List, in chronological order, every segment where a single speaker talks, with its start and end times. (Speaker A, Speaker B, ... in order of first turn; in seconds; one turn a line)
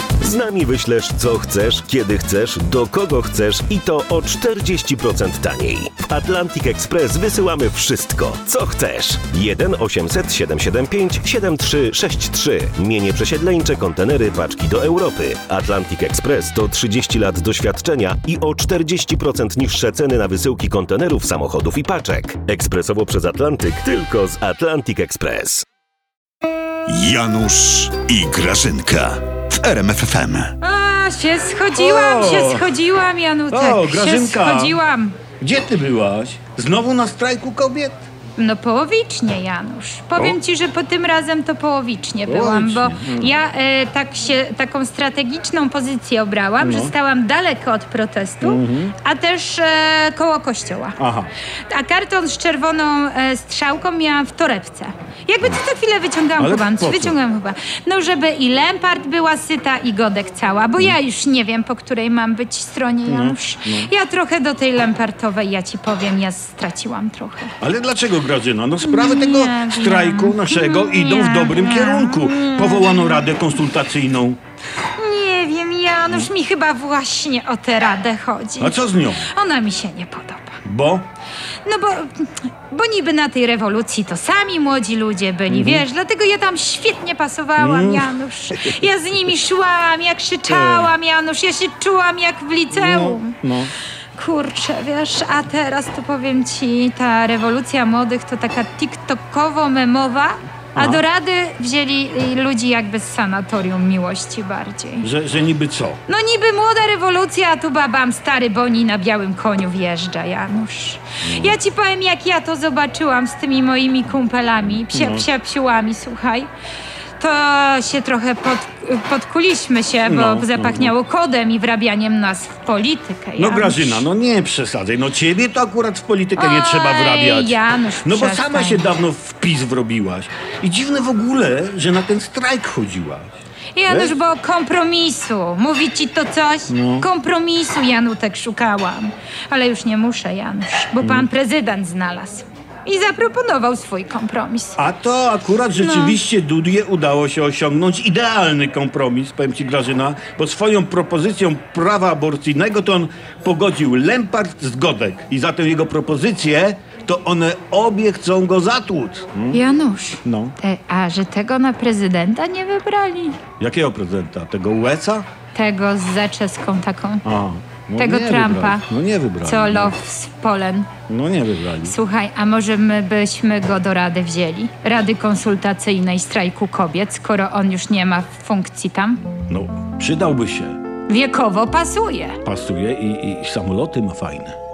Speaker A: 0.2-25.6
Speaker B: 26.9-30.5
Speaker C: 30.6-35.2
Speaker D: 31.8-32.8
Speaker D: 33.5-34.8
Speaker D: 35.4-38.0
Speaker C: 38.4-51.0
Speaker D: 42.2-43.3
Speaker D: 46.6-46.9
Speaker D: 48.4-48.9
Speaker D: 51.0-51.3
Speaker C: 51.7-67.5
Speaker D: 56.4-57.2
Speaker D: 63.1-63.9
Speaker D: 67.6-74.4
Speaker C: 68.8-73.2
Speaker C: 75.0-80.6
Speaker D: 78.6-79.2
Speaker D: 80.6-81.1
Speaker C: 81.6-93.4
Speaker D: 85.5-85.8
Speaker D: 87.6-88.8
Speaker D: 90.5-90.9
Speaker D: 92.7-93.7
Speaker C: 94.2-105.1
Speaker D: 100.8-101.0
Speaker D: 105.0-106.0
Speaker C: 106.1-116.5
Speaker D: 111.2-111.6
Speaker D: 114.9-115.3
Speaker C: 117.2-124.1
Speaker D: 120.0-120.9
Speaker D: 123.4-133.3
Speaker C: 126.3-128.8
Speaker C: 133.8-144.8
Speaker D: 133.9-134.2
Speaker D: 136.7-137.1
Speaker D: 141.0-141.3
Speaker D: 144.8-159.6
Speaker C: 145.8-146.2
Speaker C: 159.5-163.4
Speaker D: 160.2-160.6
Speaker D: 163.6-165.2
Speaker C: 165.5-167.2
Speaker D: 167.2-169.9
Speaker C: 168.0-168.8
Speaker C: 169.4-170.9
Speaker D: 171.1-172.0
Speaker C: 171.8-179.2
Speaker D: 179.5-180.8
Speaker C: 181.1-182.4
Speaker D: 182.4-184.6